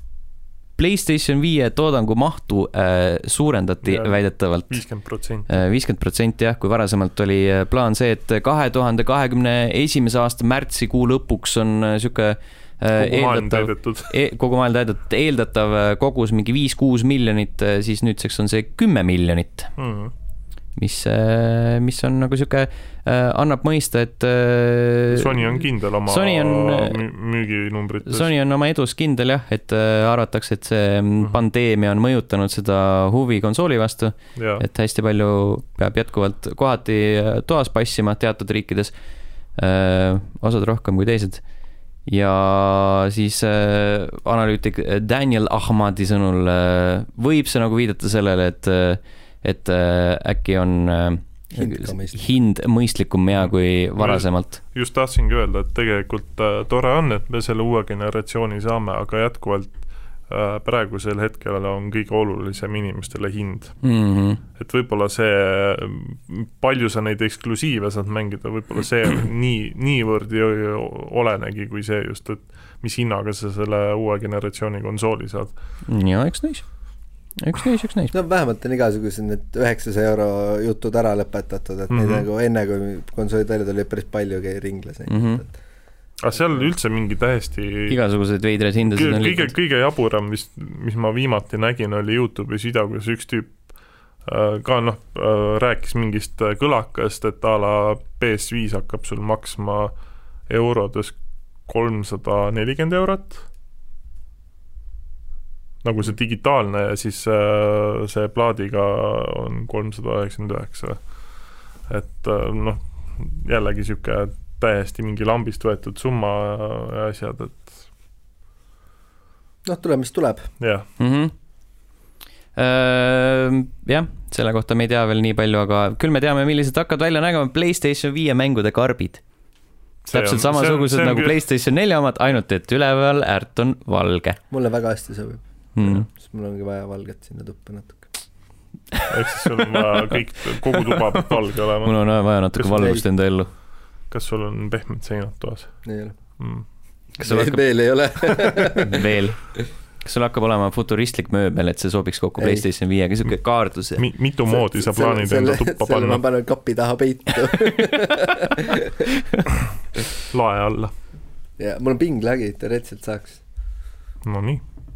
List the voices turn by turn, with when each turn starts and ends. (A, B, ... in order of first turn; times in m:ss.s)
0:00.8-0:19.8 A
0:03.8-0:05.6 B
0:13.0-0:14.1 B
0:19.8-0:20.1 B
0:20.7-0:27.0 A
0:25.1-0:28.3 B
0:28.0-0:54.6 A
0:34.3-0:34.6 B
0:51.5-0:52.2 C
0:53.4-1:04.0 B
1:03.8-1:04.4 A
1:04.5-1:15.6 B
1:15.8-1:18.1 A
1:18.1-1:25.6 C
1:21.9-1:22.2 B
1:25.1-1:25.4 A
1:26.2-1:28.0 B
1:26.4-1:26.7 C
1:27.9-1:29.5 A
1:28.8-1:43.4 B
1:45.8-1:57.9 B
1:59.6-2:00.5 C
2:00.6-2:00.9 B
2:01.0-2:01.3 A
2:02.5-2:09.2 A
2:10.0-2:14.4 A
2:10.1-2:11.3 B
2:14.5-2:18.1 C
2:15.7-2:16.1 A
2:19.1-2:27.5 B
2:21.8-2:23.5 A
2:22.7-2:23.0 C
2:25.8-2:26.2 C
2:27.2-2:29.0 C
2:27.2-2:27.6 A
2:28.3-2:28.7 B
2:28.8-2:34.0 A
2:32.4-2:32.7 C
2:34.0-2:36.2 B
2:34.5-2:39.0 C
2:40.3-2:40.9 B
2:41.6-2:43.4 C
2:44.2-2:44.6 B